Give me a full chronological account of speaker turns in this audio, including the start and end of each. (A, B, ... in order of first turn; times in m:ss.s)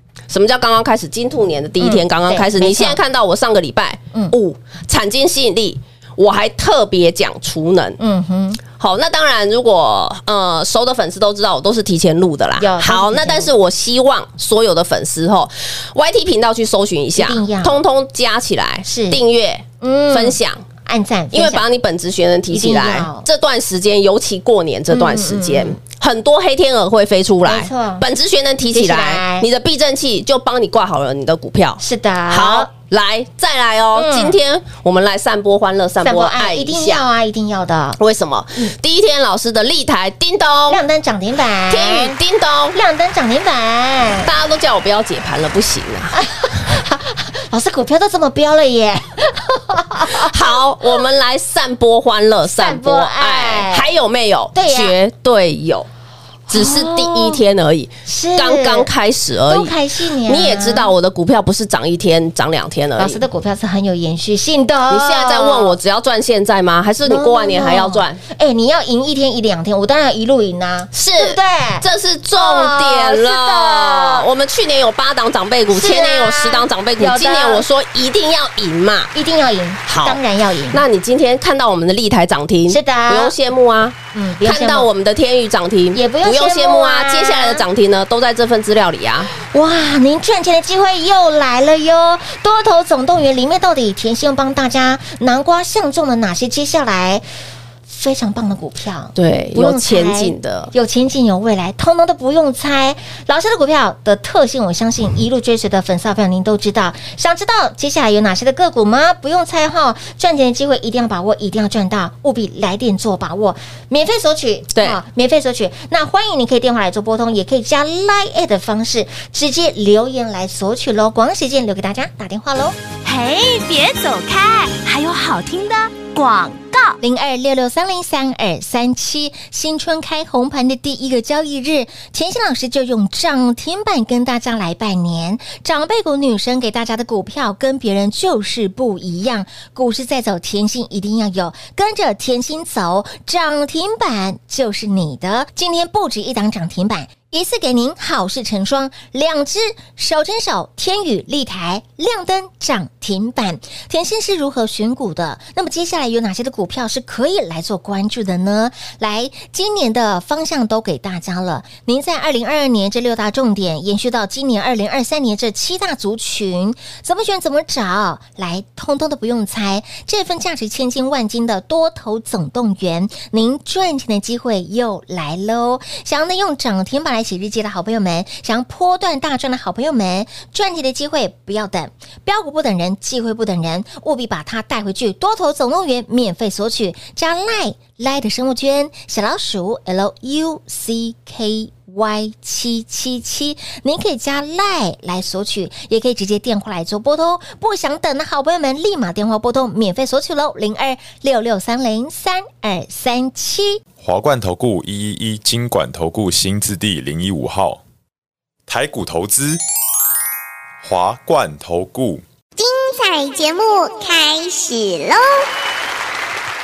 0:00.3-0:08.0 A
0:01.8-0:03.0 B
0:08.0-0:08.6 B
0:08.8-0:20.6 A
0:12.6-0:13.5 B
0:17.2-0:17.8 B
0:18.8-0:19.2 B
0:19.8-0:21.6 B
0:21.3-0:37.0 A
0:22.5-0:23.2 B
0:24.9-0:25.8 B
0:27.4-0:28.0 B
0:28.7-0:29.5 B
0:31.8-0:32.7 B
0:33.9-0:34.4 B
0:36.0-0:38.0 B
0:38.0-0:40.8 A
0:40.7-0:42.2 B
0:41.7-0:42.8 A
0:42.7-0:44.3 B
0:44.2-0:46.2 A
0:46.1-0:50.9 B
0:50.0-0:55.9 A
0:52.4-0:53.9 B
0:54.5-0:54.9 B
0:56.5-0:57.4 B
0:56.5-1:03.2 A
0:58.0-0:58.9 B
0:59.5-1:00.9 B
1:03.0-1:05.7 B
1:04.9-1:08.2 A
1:07.0-1:11.8 B
1:10.9-1:19.1 A
1:12.4-1:14.3 B
1:15.7-1:17.6 B
1:19.1-1:20.8 B
1:19.9-1:20.2 A
1:20.7-1:29.3 A
1:22.7-1:23.3 B
1:24.1-1:24.9 B
1:25.9-1:27.6 B
1:29.3-1:37.2 B
1:37.9-2:02.8 B
1:39.2-1:40.7 A
2:03.0-2:07.0 C
2:07.0-3:23.8 B
3:24.0-3:27.8 D
3:28.7-3:29.6 D
3:30.8-3:32.2 D
3:32.6-3:35.5 E